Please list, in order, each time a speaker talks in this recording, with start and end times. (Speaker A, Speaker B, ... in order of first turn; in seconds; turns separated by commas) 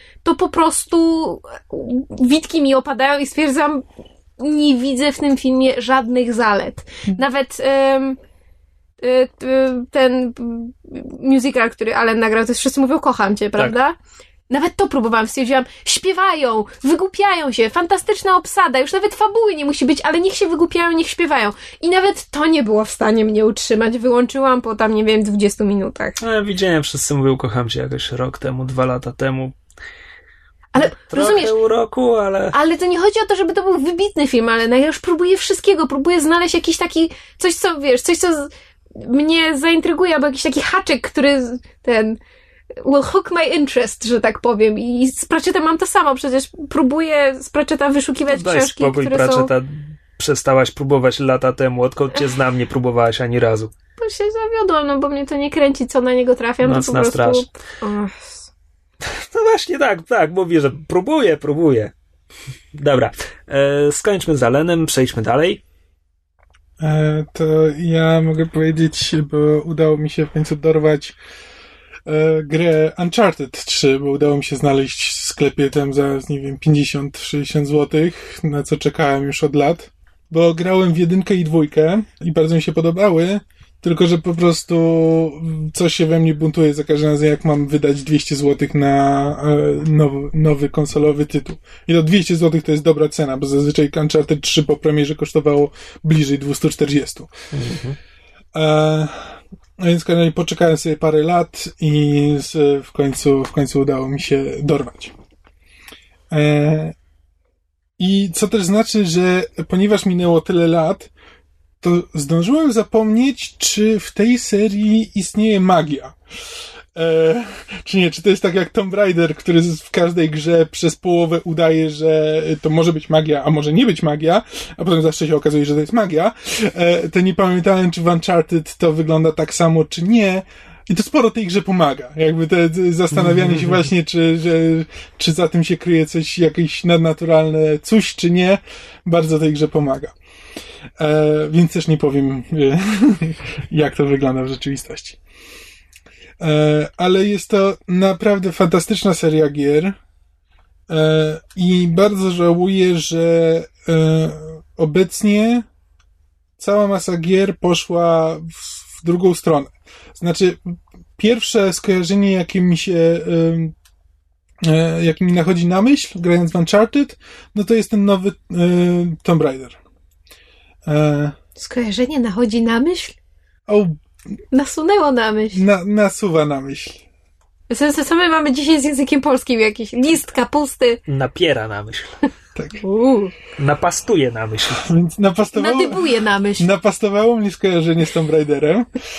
Speaker A: 0.2-3.8, Speaker A: 4.4-8.2, Speaker A: 9.0-13.9, Speaker A: 14.5-26.2, Speaker B: 26.2-29.5, Speaker A: 30.7-31.5, Speaker B: 30.8-32.5, Speaker A: 32.5-42.2, Speaker A: 42.7-49.5, Speaker B: 48.3-53.7, Speaker A: 54.0-58.5, Speaker B: 56.6-57.5, Speaker B: 59.0-61.9, Speaker B: 62.7-65.6, Speaker C: 66.8-71.2, Speaker C: 72.0-97.3, Speaker B: 97.5-98.0, Speaker C: 98.5-105.1, Speaker C: 106.3-107.0, Speaker C: 108.0-111.1, Speaker C: 111.8-116.2, Speaker C: 116.9-140.1, Speaker B: 133.2-133.7, Speaker C: 141.0-145.2, Speaker C: 146.4-150.0, Speaker C: 150.9-155.7, Speaker C: 156.6-163.7, Speaker C: 164.6-169.8, Speaker C: 170.8-171.3, Speaker A: 171.6-173.1, Speaker C: 173.7-174.0, Speaker A: 174.5-175.6, Speaker C: 175.5-177.0, Speaker A: 177.7-181.0, Speaker B: 181.1-182.1, Speaker A: 182.8-183.3, Speaker B: 183.6-184.8, Speaker C: 184.8-188.9, Speaker A: 185.5-186.7